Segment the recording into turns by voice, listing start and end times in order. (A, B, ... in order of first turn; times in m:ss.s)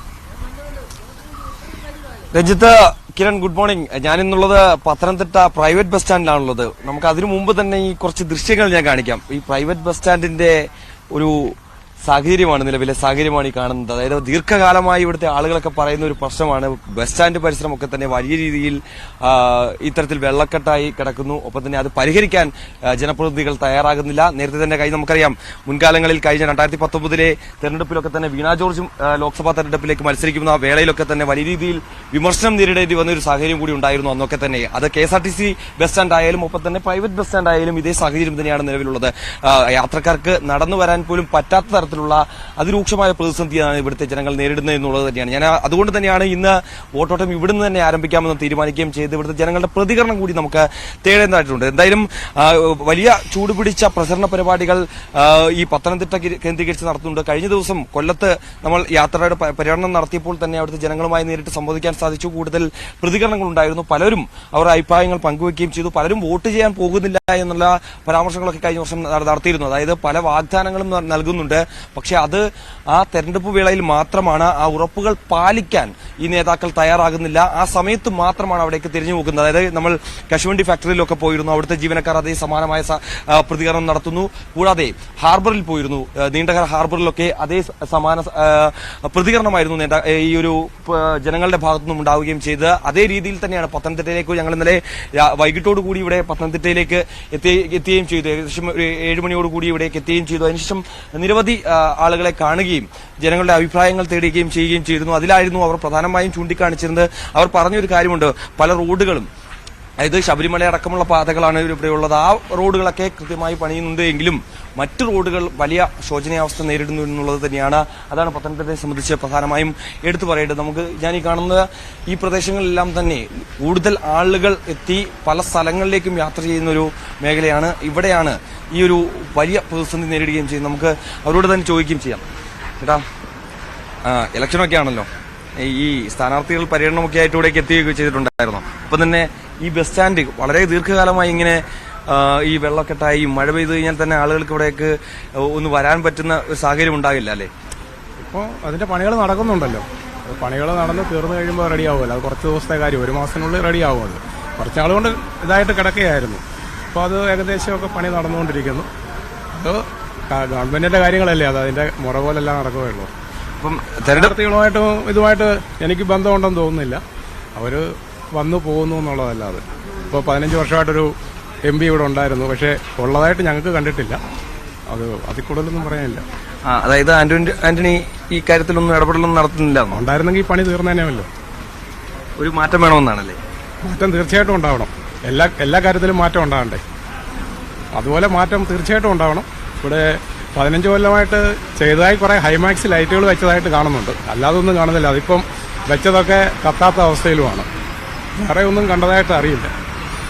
0:02.3-1:49.3 A
1:50.0-2:12.2 A
2:14.1-2:15.1 A
2:15.6-2:27.5 A
2:28.2-2:36.4 B
2:36.9-2:38.9 B
2:39.6-2:43.1 B
2:43.6-2:44.4 A
2:44.1-2:47.0 B
2:47.6-2:51.1 B
2:51.7-2:54.2 B
2:54.9-2:56.2 B
2:56.7-3:00.0 A
2:59.9-3:01.3 B
3:02.4-3:03.4 A
3:03.8-3:06.8 B
3:07.9-3:17.7 B
3:18.4-3:19.7 B